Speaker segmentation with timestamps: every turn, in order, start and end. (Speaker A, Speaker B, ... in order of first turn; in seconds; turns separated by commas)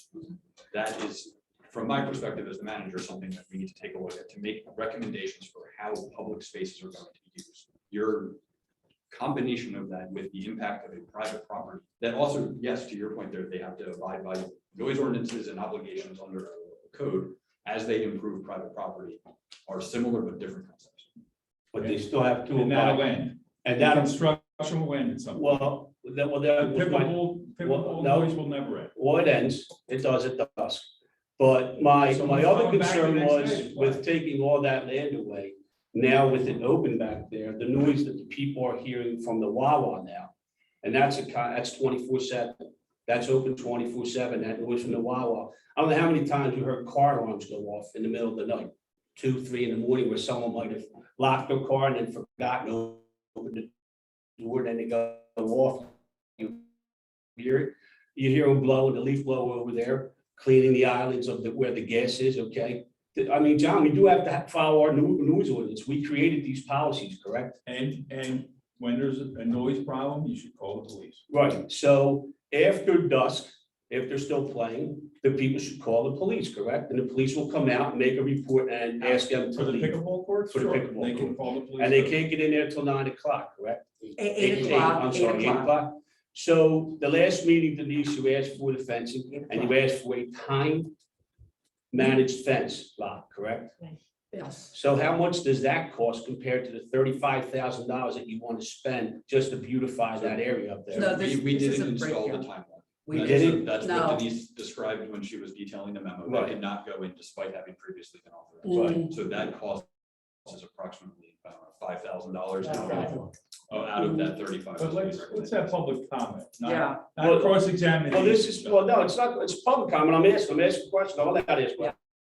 Speaker A: 0.7-8.4, Speaker A: 9.1-21.1, Speaker B: 21.7-23.1, Speaker C: 21.8-25.7, Speaker B: 23.6-24.2, Speaker B: 25.3-28.4, Speaker C: 26.6-28.9, Speaker B: 28.9-53.7, Speaker C: 32.1-34.0, Speaker B: 54.4-56.6, Speaker B: 57.4-67.6, Speaker C: 67.7-71.2, Speaker B: 71.3-80.0, Speaker C: 79.0-82.2, Speaker B: 80.5-90.9, Speaker D: 84.2-85.7, Speaker B: 91.9-93.8, Speaker D: 94.3-94.7, Speaker B: 94.7-101.1, Speaker A: 100.9-109.9, Speaker D: 100.9-102.5, Speaker D: 103.0-104.3, Speaker B: 103.1-103.7, Speaker B: 106.2-106.5, Speaker D: 108.6-109.1, Speaker B: 108.7-109.1, Speaker A: 110.4-115.6, Speaker C: 112.9-113.3, Speaker C: 114.8-118.8, Speaker D: 116.6-117.0, Speaker B: 117.2-121.9